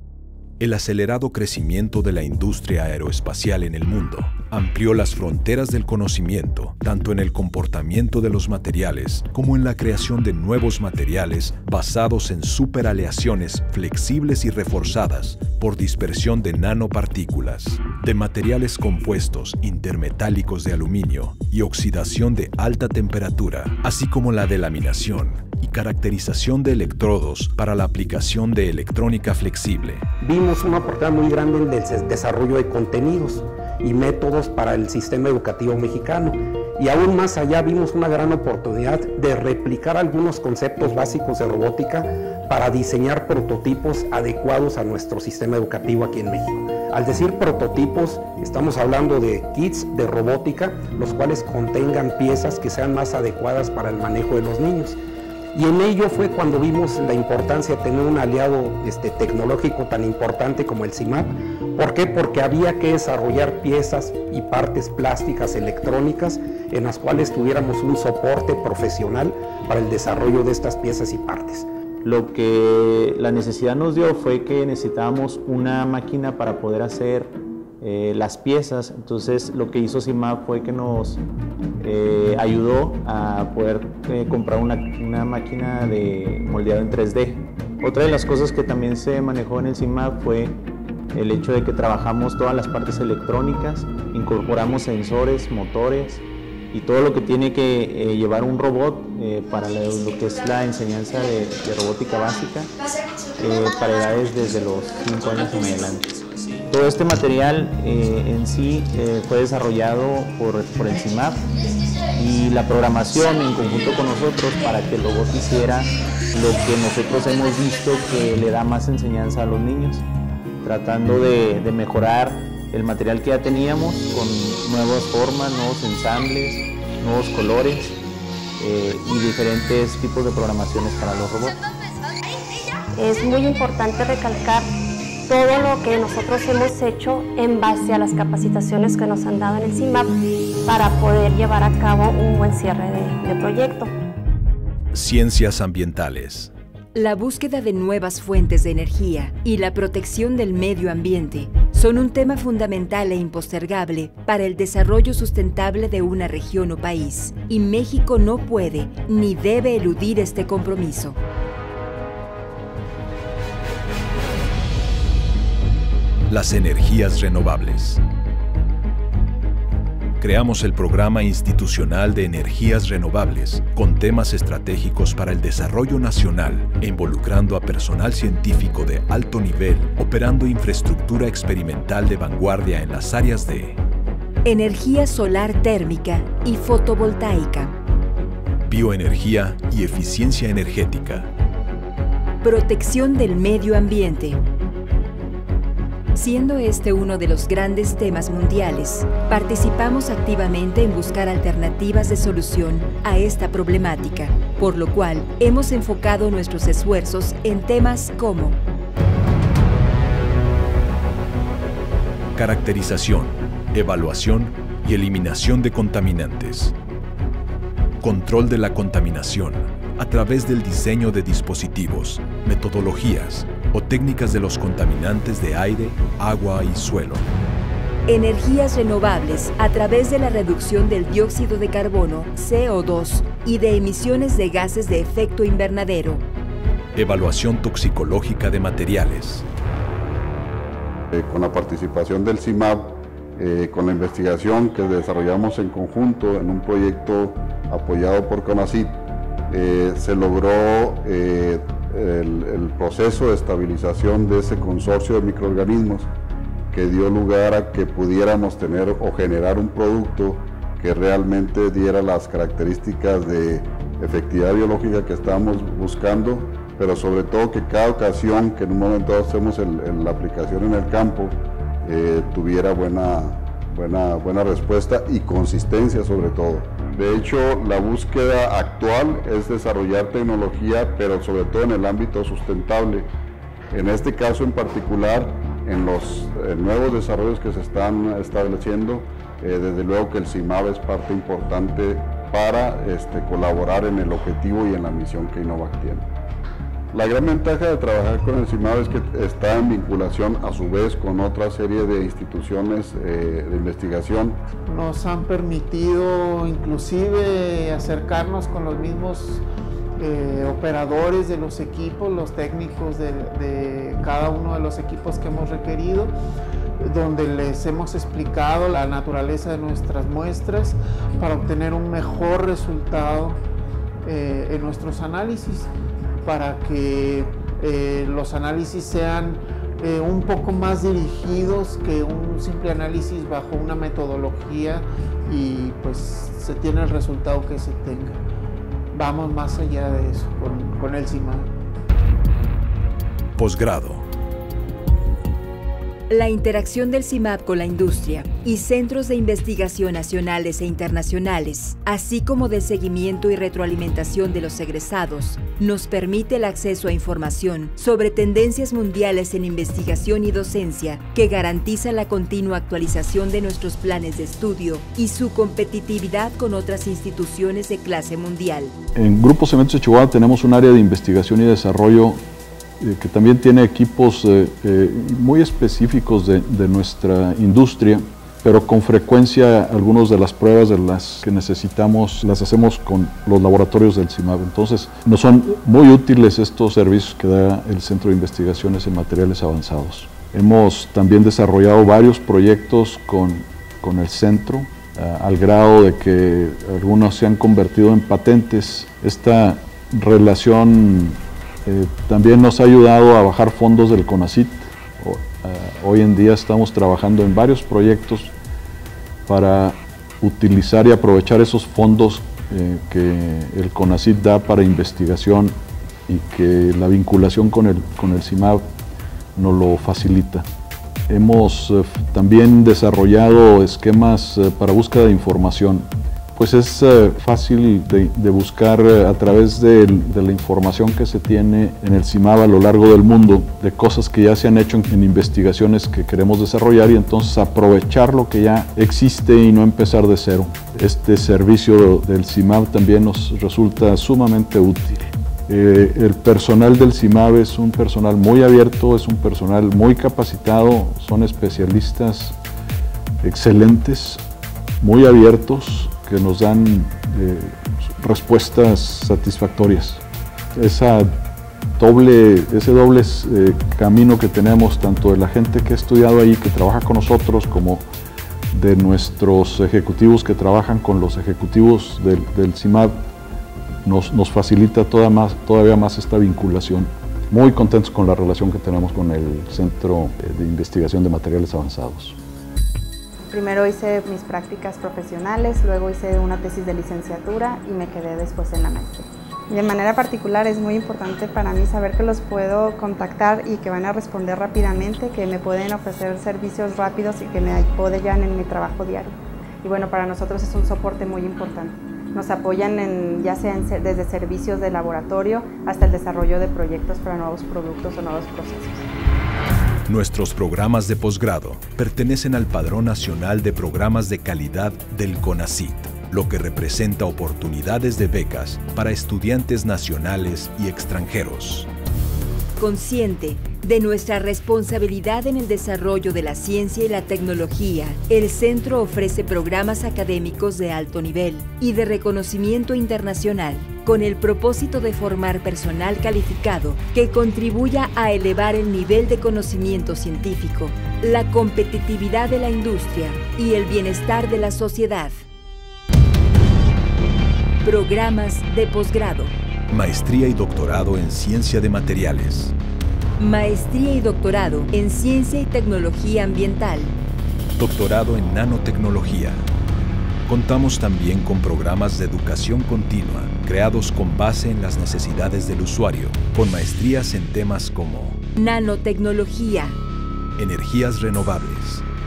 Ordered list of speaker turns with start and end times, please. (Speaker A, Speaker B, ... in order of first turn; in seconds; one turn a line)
Speaker A: 0.6-30.1
Speaker B: 30.2-55.0
Speaker B: 55.5-71.7
Speaker C: 72.0-81.2
Speaker C: 81.8-90.6
Speaker C: 91.1-102.7
Speaker C: 103.3-106.1
Speaker C: 106.7-111.5
Speaker C: 112.1-120.0
Speaker C: 120.6-127.9
Speaker C: 128.6-131.6
Speaker D: 132.9-134.7
Speaker D: 135.3-140.1
Speaker D: 140.7-143.9
Speaker A: 144.9-146.5
Speaker E: 146.9-161.2
Speaker A: 166.3-168.0
Speaker A: 170.2-183.8
Speaker E: 184.4-187.7
Speaker A: 188.7-191.3
Speaker E: 192.4-194.4
Speaker E: 196.1-208.6
Speaker A: 212.3-216.7
Speaker A: 218.0-227.3
Speaker E: 228.1-236.2
Speaker A: 236.9-239.4
Speaker F: 241.1-249.0
Speaker F: 249.5-256.1
Speaker F: 256.7-283.1
Speaker F: 283.7-296.1
Speaker F: 296.9-304.4
Speaker G: 304.7-309.4
Speaker G: 310.0-316.1
Speaker G: 316.8-323.4
Speaker G: 324.0-325.7
Speaker G: 326.2-338.2
Speaker G: 338.9-341.5
Speaker A: 343.4-344.1
Speaker E: 346.1-368.8
Speaker H: 368.9-372.2
Speaker H: 372.8-408.3
Speaker H: 409.3-415.6
Speaker H: 416.1-418.7
Speaker H: 419.3-420.4
Speaker H: 421.1-452.4
Speaker H: 453.2-454.2
Speaker H: 454.8-460.0
Speaker H: 460.5-461.1
Speaker H: 461.8-467.9
Speaker H: 468.5-473.0
Speaker H: 473.8-482.1
Speaker I: 483.3-508.8
Speaker A: 509.9-521.7
Speaker E: 522.6-545.2
Speaker E: 547.6-549.3
Speaker A: 549.7-552.5
Speaker E: 553.2-557.0
Speaker A: 557.6-559.5
Speaker A: 560.2-568.2
Speaker E: 568.4-569.8
Speaker A: 570.4-571.8